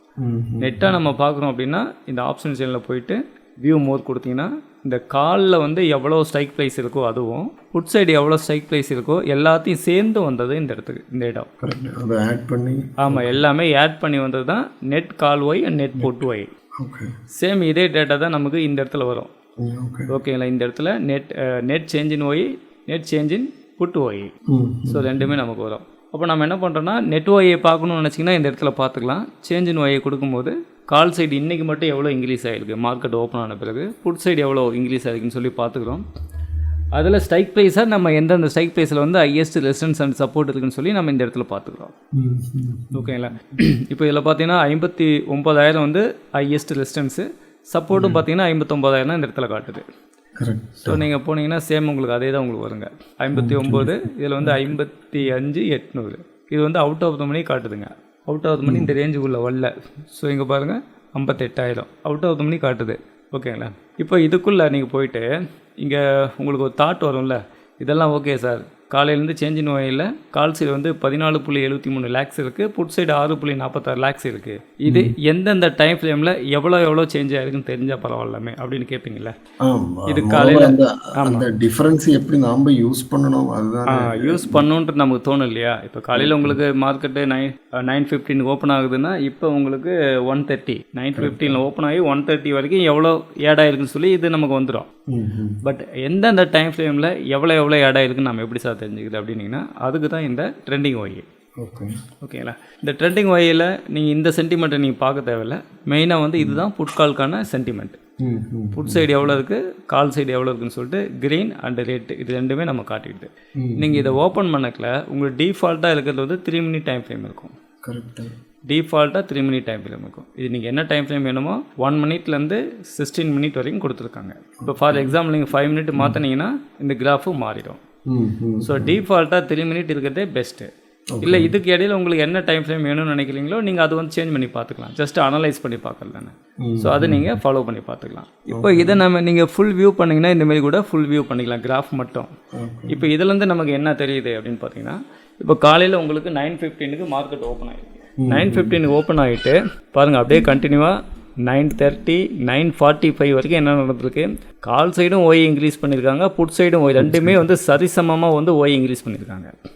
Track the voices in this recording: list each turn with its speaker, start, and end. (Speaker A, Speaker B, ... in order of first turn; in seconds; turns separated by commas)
Speaker A: 0.2-0.9, Speaker B: 0.6-11.5, Speaker A: 11.6-13.4, Speaker B: 13.0-16.5, Speaker A: 16.0-16.3, Speaker A: 16.8-17.1, Speaker B: 17.3-19.3, Speaker A: 19.6-20.1, Speaker B: 20.1-24.3, Speaker A: 24.5-25.4, Speaker B: 24.9-36.0, Speaker B: 36.9-41.9, Speaker A: 42.1-43.6, Speaker B: 42.9-49.8, Speaker A: 47.9-48.2, Speaker A: 50.4-51.0, Speaker B: 50.8-65.3, Speaker A: 53.4-54.8, Speaker A: 58.7-58.9, Speaker B: 65.8-79.3, Speaker A: 74.9-75.1, Speaker A: 79.6-84.7, Speaker B: 80.1-81.5, Speaker B: 83.9-94.9, Speaker A: 86.1-86.6, Speaker A: 91.2-91.6, Speaker A: 95.1-95.6, Speaker B: 95.6-101.2, Speaker A: 101.6-101.9, Speaker B: 102.2-108.0, Speaker A: 106.4-106.6, Speaker A: 108.2-109.3, Speaker B: 108.8-117.5, Speaker A: 113.6-114.2, Speaker A: 117.8-118.3, Speaker B: 118.7-127.8, Speaker A: 124.6-125.2, Speaker A: 128.1-129.0, Speaker B: 128.6-130.7, Speaker A: 131.1-131.5, Speaker B: 131.2-142.3, Speaker A: 136.6-137.4, Speaker A: 138.5-139.0, Speaker A: 142.6-143.1, Speaker B: 142.9-159.5, Speaker A: 148.2-148.8, Speaker A: 157.0-157.4